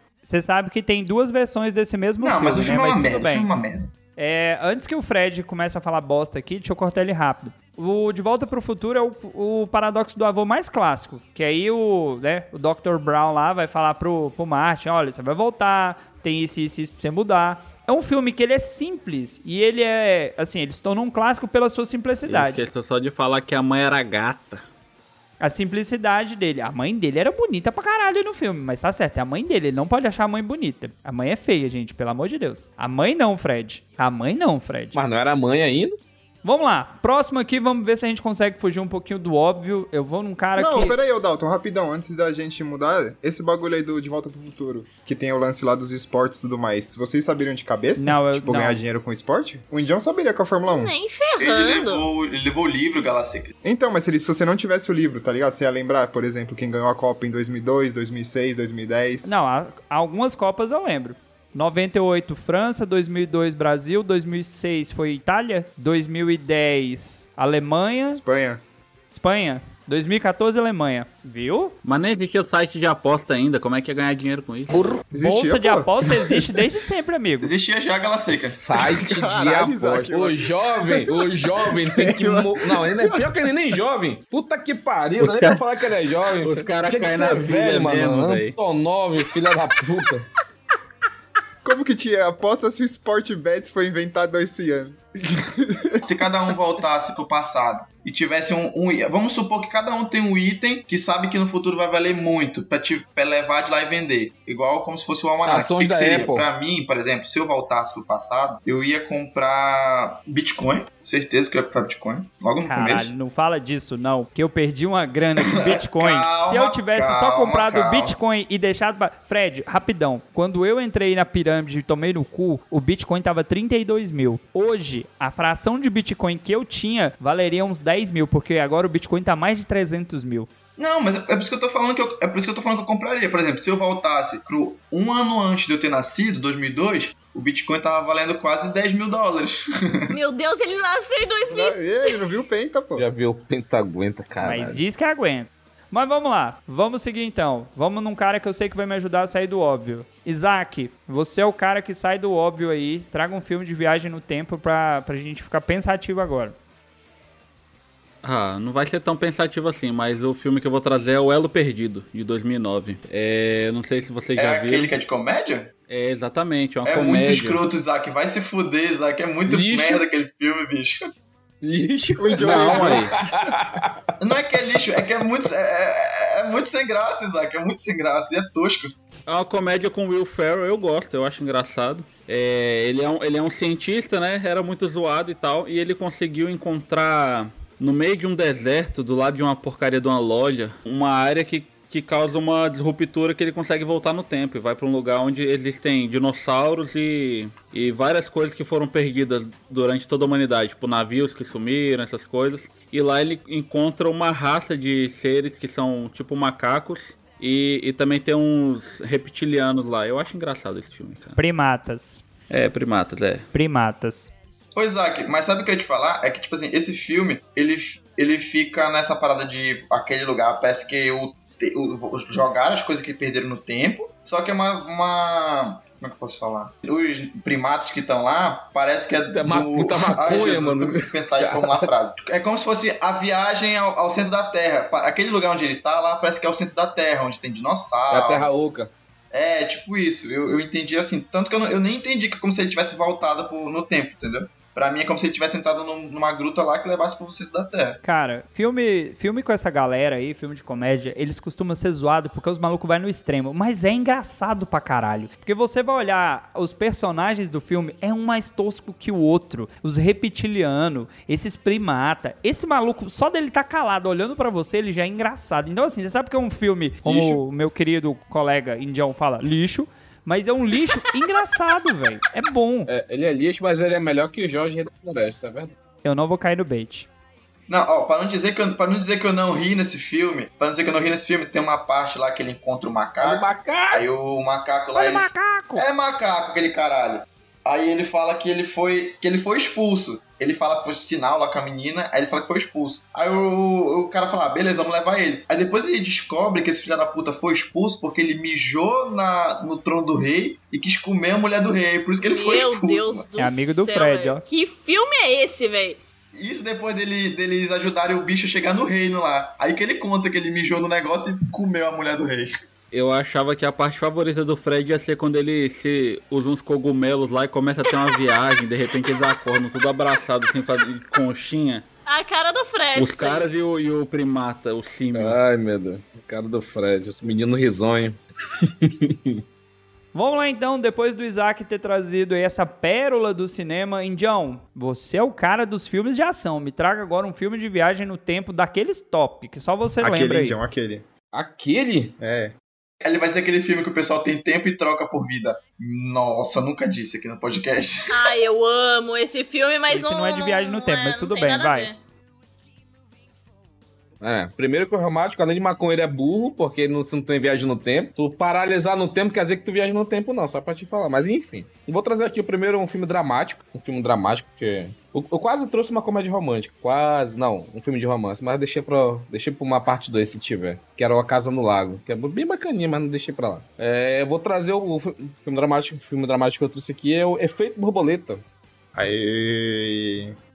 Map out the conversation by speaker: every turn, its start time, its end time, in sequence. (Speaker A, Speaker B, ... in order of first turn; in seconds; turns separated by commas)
Speaker A: 0.2-3.5, Speaker B: 2.2-3.9, Speaker A: 4.2-22.6, Speaker C: 22.3-24.6, Speaker A: 25.4-35.0, Speaker D: 34.9-36.0, Speaker A: 36.4-41.0, Speaker E: 40.5-50.9, Speaker A: 48.0-48.8, Speaker F: 50.6-52.0, Speaker B: 51.4-53.5, Speaker E: 53.6-59.3, Speaker A: 59.2-68.2, Speaker E: 68.1-68.6, Speaker A: 69.1-71.8, Speaker C: 71.8-74.8, Speaker E: 75.1-76.5, Speaker A: 75.2-77.5, Speaker B: 77.4-78.6, Speaker D: 78.3-90.3, Speaker E: 78.8-83.5, Speaker C: 85.2-85.6, Speaker C: 86.4-88.5, Speaker E: 91.6-96.1, Speaker B: 96.0-113.1, Speaker D: 105.4-106.5, Speaker A: 112.6-130.5, Speaker B: 115.4-118.2, Speaker B: 130.8-140.1, Speaker F: 140.1-142.2, Speaker E: 141.5-143.1, Speaker D: 142.9-144.8, Speaker A: 144.4-156.6, Speaker C: 158.2-164.9, Speaker B: 164.3-165.7, Speaker C: 165.9-167.6, Speaker B: 166.8-171.1, Speaker D: 169.4-170.0, Speaker D: 171.6-173.9, Speaker E: 172.2-173.1, Speaker C: 172.4-173.1, Speaker B: 174.2-178.9, Speaker C: 179.3-211.4, Speaker A: 211.4-212.2, Speaker C: 212.5-213.5, Speaker A: 213.5-214.3, Speaker B: 214.7-238.5, Speaker D: 229.3-231.9, Speaker D: 238.1-238.9, Speaker B: 239.3-248.0, Speaker A: 248.0-272.9, Speaker D: 267.0-267.4, Speaker D: 272.9-275.7, Speaker A: 276.0-277.1, Speaker B: 277.7-303.2, Speaker D: 283.2-284.0, Speaker A: 284.9-285.9, Speaker F: 302.2-306.0, Speaker A: 303.4-304.4, Speaker B: 306.3-312.5, Speaker C: 312.9-321.8, Speaker F: 322.1-323.4, Speaker C: 322.9-325.4, Speaker D: 325.1-329.4, Speaker A: 330.1-340.6, Speaker E: 340.0-341.1, Speaker D: 341.3-342.1, Speaker E: 342.2-342.5, Speaker B: 343.0-348.3, Speaker F: 348.1-352.0, Speaker A: 349.9-351.9, Speaker D: 354.2-378.4, Speaker E: 378.9-380.4